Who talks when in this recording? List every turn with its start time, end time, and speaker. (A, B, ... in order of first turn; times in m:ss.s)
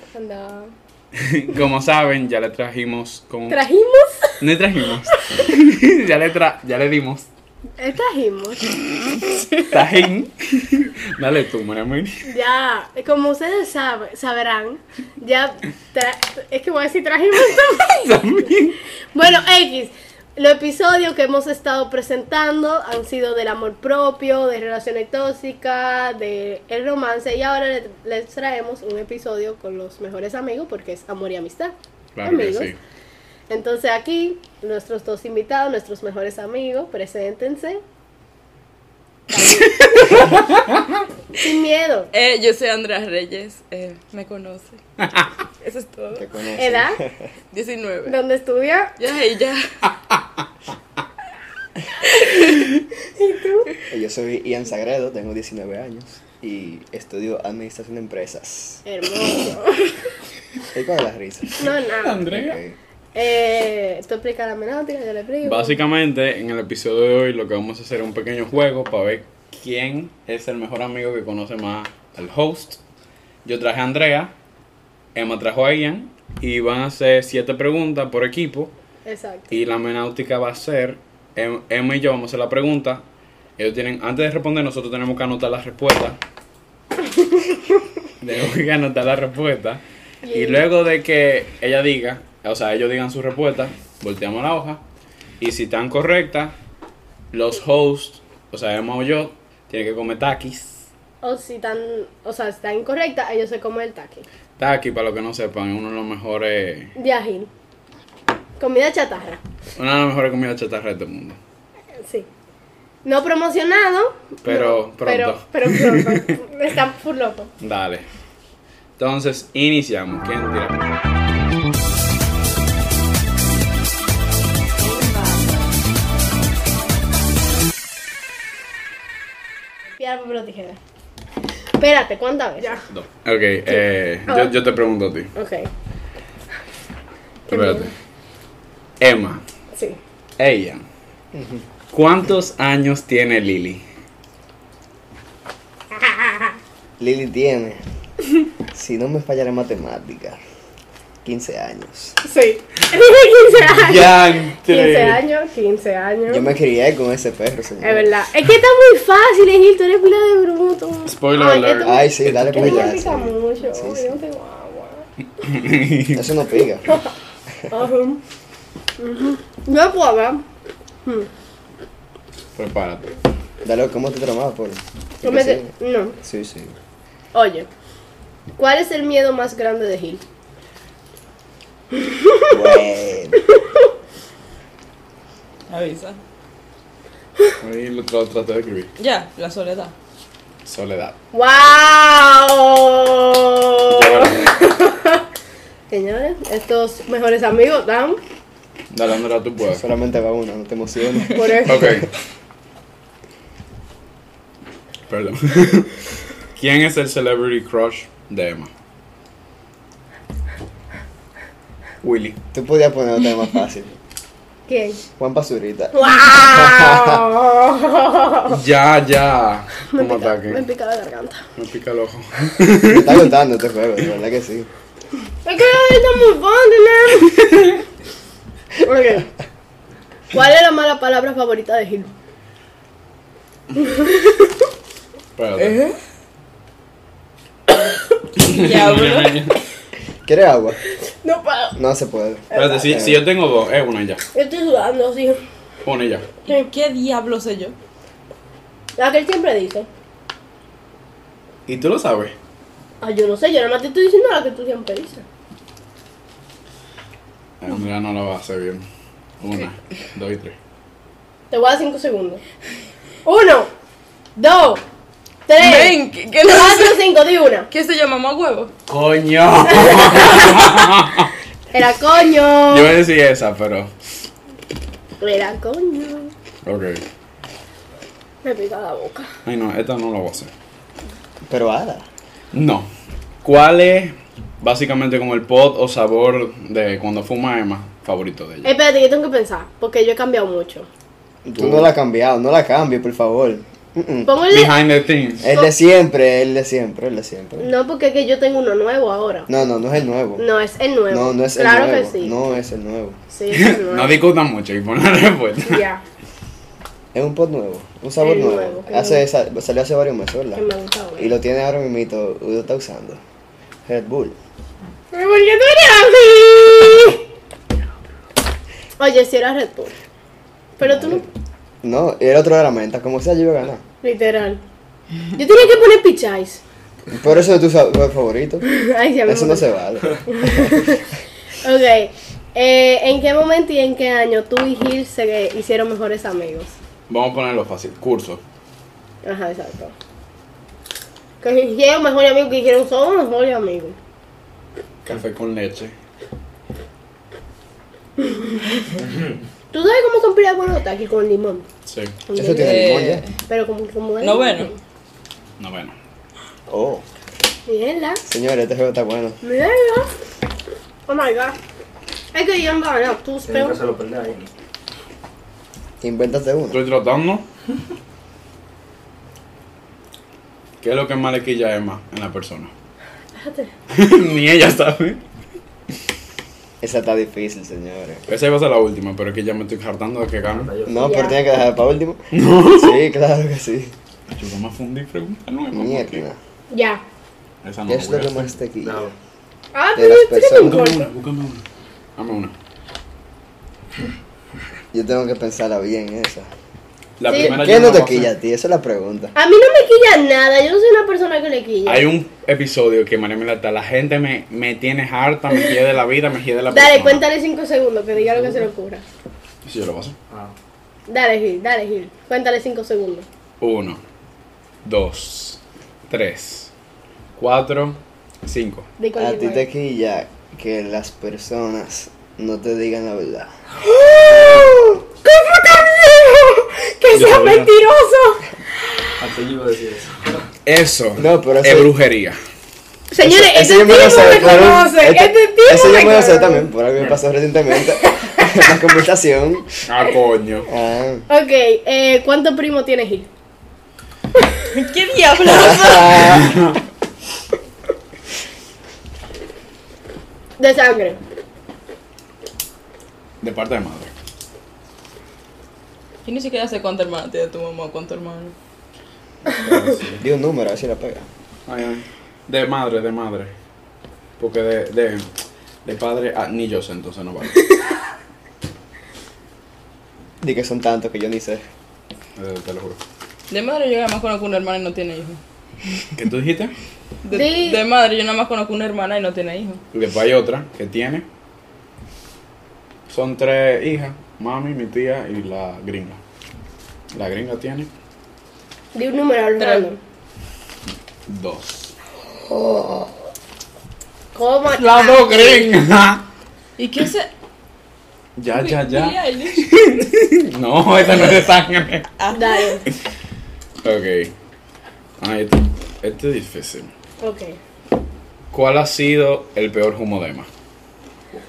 0:00.1-0:00.7 A
0:01.1-0:03.6 B
0:03.5-0:04.4 A
0:04.4-0:07.3 B
0:07.8-0:08.7 A
0:09.7-0:12.2 B
0:12.2-0:18.1 A
0:17.5-0:18.8 B
0:19.1-0:32.7 A
0:32.2-0:32.8 B
0:33.5-0:37.8 A
0:39.3-0:40.3 A
0:39.4-0:40.3 C
0:41.4-0:42.1 A
0:42.1-0:44.8 C
0:45.6-0:46.3 C
0:46.2-0:47.3 D
0:46.6-0:47.0 A
0:47.5-0:48.2 C
0:48.1-0:48.9 A
0:49.0-0:49.9 C
0:53.0-0:53.7 A
0:53.9-0:58.8 D
0:58.8-0:59.9 A
1:00.7-1:01.7 D
1:01.6-1:02.2 A
1:01.9-1:02.6 B
1:02.2-1:02.8 D
1:03.2-1:05.8 A
1:05.4-1:12.8 B
1:13.4-1:14.3 B
1:15.2-1:18.7 B
1:19.1-1:19.5 A
1:19.5-1:23.0 B
1:23.6-1:26.2 B
1:28.2-1:34.8 B
1:30.2-1:30.7 A
1:35.4-1:36.6 B
1:37.3-1:40.8 B
1:41.2-1:44.3 A
1:44.6-1:46.9 B
1:47.0-1:47.5 A
1:48.6-1:49.4 A
1:49.8-1:51.4 B
1:52.0-1:52.3 A
1:53.0-1:57.5 A
1:54.4-1:56.3 B
1:57.6-1:58.0 B
1:59.0-2:01.1 B
2:10.0-2:10.8 A
2:11.8-2:12.8 A
2:12.9-2:15.3 B
2:14.3-2:14.5 A
2:15.4-2:15.7 A
2:17.5-2:17.9 A
2:17.5-2:17.9 B
2:19.0-2:19.4 B
2:19.7-2:20.0 A
2:20.4-2:20.8 B
2:21.3-2:21.6 D
2:21.9-2:23.8 B
2:26.1-2:26.5 A
2:27.0-2:27.8 D
2:28.7-2:30.4 D
2:31.2-2:32.2 D
2:32.2-2:36.5 A
2:33.7-2:35.2 B
2:36.3-2:38.1 D
2:37.8-2:45.0 A
2:41.1-2:42.9 B
2:41.8-2:44.2 D
2:45.4-2:46.3 B
2:46.1-2:47.0 D
2:47.7-2:48.2 A
2:49.0-2:50.4 A
2:52.6-2:53.1 B
2:53.6-2:56.8 D
2:55.2-2:56.2 A
2:57.3-2:57.7 A
2:58.6-3:00.2 A
3:01.9-3:02.6 A
3:02.5-3:03.4 D
3:03.5-3:03.8 A
3:05.7-3:06.2 C
3:07.6-3:08.9 B
3:09.0-3:09.9 C
3:10.6-3:11.2 B
3:11.3-3:15.3 A
3:13.9-3:14.5 B
3:15.9-3:18.2 A
3:18.9-3:19.8 B
3:19.7-3:22.0 D
3:21.3-3:22.0 A
3:21.6-3:22.1 B
3:25.1-3:26.0 B
3:26.5-3:28.7 B
3:32.0-3:32.4 B
3:32.5-3:34.0 D
3:34.7-3:35.0 A
3:35.2-3:37.3 D
3:35.9-3:38.6 A
3:38.5-3:40.6 B
3:39.9-3:41.4 A
3:41.6-3:43.2 B
3:42.8-3:44.7 D
3:45.4-3:47.6 A
3:48.8-3:49.3 A
3:50.3-3:52.1 A
3:53.8-3:54.3 A
3:55.4-3:55.8 B
3:55.6-3:56.0 C
3:58.4-3:59.6 B
3:58.4-3:59.5 C
4:00.3-4:00.8 D
4:01.1-4:01.8 A
4:01.8-4:03.2 D
4:02.5-4:03.0 A
4:02.5-4:04.2 B
4:04.3-4:05.4 A
4:05.8-4:06.3 B
4:06.5-4:07.7 C
4:09.0-4:09.9 A
4:11.7-4:12.4 B
4:13.0-4:15.2 A
4:17.6-4:18.8 B
4:19.4-4:20.6 B
4:21.5-4:22.4 A
4:23.2-4:23.7 A
4:24.4-4:24.8 A
4:25.5-4:27.7 A
4:25.6-4:27.1 C
4:27.7-4:28.7 C
4:28.9-4:31.3 B
4:29.7-4:30.7 A
4:31.7-4:33.0 A
4:32.7-4:33.9 B
4:35.2-4:36.3 A
4:36.6-4:37.0 B
4:38.4-4:39.3 A
4:39.4-4:40.5 B
4:41.5-4:42.1 D
4:42.5-4:42.9 B
4:43.4-4:48.7 B
4:48.6-4:50.9 A
4:51.4-4:54.4 D
4:51.6-4:51.9 B
4:54.3-4:54.8 A
4:54.5-4:55.5 B
4:55.4-4:57.7 D
4:55.4-4:55.7 A
4:57.6-4:59.5 A
4:59.5-5:00.4 D
5:00.4-5:02.4 A
5:01.1-5:03.2 D
5:03.3-5:04.2 A
5:03.5-5:05.9 B
5:05.7-5:06.0 A
5:07.1-5:10.6 D
5:08.2-5:09.2 A
5:10.6-5:11.4 A
5:11.2-5:13.2 D
5:13.9-5:14.4 D
5:15.1-5:17.2 A
5:19.0-5:20.0 A
5:20.8-5:21.2 A
5:20.8-5:21.2 D
5:21.8-5:23.8 D
5:24.0-5:24.6 A
5:25.3-5:26.6 A
5:27.1-5:28.6 D
5:28.6-5:29.7 A
5:29.3-5:30.8 D
5:30.3-5:31.1 A
5:31.6-5:36.7 A
5:37.1-5:38.4 B
5:39.2-5:39.9 A
5:41.4-5:44.0 A
5:45.0-5:45.9 B
5:48.2-5:48.6 A
5:49.7-5:51.7 A
5:51.9-5:52.2 B
5:52.3-5:54.8 A
5:52.3-5:53.2 D
5:52.6-5:53.3 C
5:54.2-5:54.7 C
5:55.6-5:55.9 B
5:56.7-5:57.0 D
5:57.7-5:58.2 A
5:58.3-5:59.4 D
5:59.4-6:00.1 A
6:01.1-6:01.6 A
6:02.3-6:03.8 A
6:03.4-6:04.5 E
6:06.0-6:06.8 D
6:06.7-6:07.4 B
6:10.8-6:12.7 B
6:13.4-6:13.7 A
6:13.9-6:15.2 B
6:16.8-6:18.2 D
6:18.3-6:20.7 B
6:20.5-6:21.1 E
6:20.8-6:23.9 D
6:21.0-6:21.4 A
6:22.3-6:23.0 B
6:24.3-6:26.2 B
6:25.7-6:26.4 D
6:26.7-6:27.0 A
6:27.6-6:28.5 B
6:27.9-6:29.1 D
6:28.8-6:29.1 E
6:29.7-6:31.1 A
6:30.0-6:30.9 D
6:30.6-6:31.6 B
6:32.2-6:32.5 B
6:34.9-6:36.5 D
6:37.2-6:38.3 B
6:37.3-6:37.6 A
6:37.3-6:39.3 D
6:39.4-6:42.1 A
6:41.9-6:47.2 B
6:46.7-6:49.0 A
6:49.7-6:50.2 B
6:50.3-6:50.6 E
6:51.1-6:53.3 A
6:53.6-6:54.0 B
6:54.8-6:56.7 B
6:57.4-6:58.9 B
6:59.0-6:59.7 A
6:59.2-7:03.5 D
7:04.0-7:08.5 A
7:07.1-7:07.7 E
7:09.2-7:10.4 E
7:10.7-7:12.4 B
7:11.2-7:11.9 D
7:13.1-7:16.7 A
7:13.2-7:19.7 D
7:17.0-7:17.2 E
7:17.8-7:18.7 A
7:19.8-7:20.7 B
7:20.7-7:21.3 D
7:21.3-7:23.3 A
7:24.7-7:26.5 C
7:25.4-7:26.6 D
7:26.2-7:26.8 B
7:30.6-7:31.2 A
7:33.4-7:34.1 B
7:36.2-7:38.5 C
7:39.5-7:40.2 B
7:39.9-7:41.3 D
7:41.7-7:43.5 B
7:44.4-7:45.3 B
7:45.8-7:47.7 B
7:50.4-7:51.6 D
7:52.4-7:53.0 B
7:53.5-7:55.4 C
7:56.2-7:56.7 B
7:57.2-7:59.8 C
7:57.3-7:57.8 A
7:59.9-8:01.2 B
8:03.1-8:06.2 B
8:07.1-8:07.9 B
8:08.9-8:10.0 A
8:09.6-8:09.9 C
8:11.3-8:11.9 B
8:12.5-8:13.1 A
8:14.4-8:15.7 A
8:14.8-8:16.2 B
8:16.8-8:17.3 C
8:18.4-8:22.1 B
8:18.5-8:20.1 C
8:22.2-8:22.8 C
8:22.3-8:22.9 A
8:23.8-8:24.3 B
8:25.2-8:26.9 B
8:27.2-8:27.6 A
8:28.5-8:30.5 B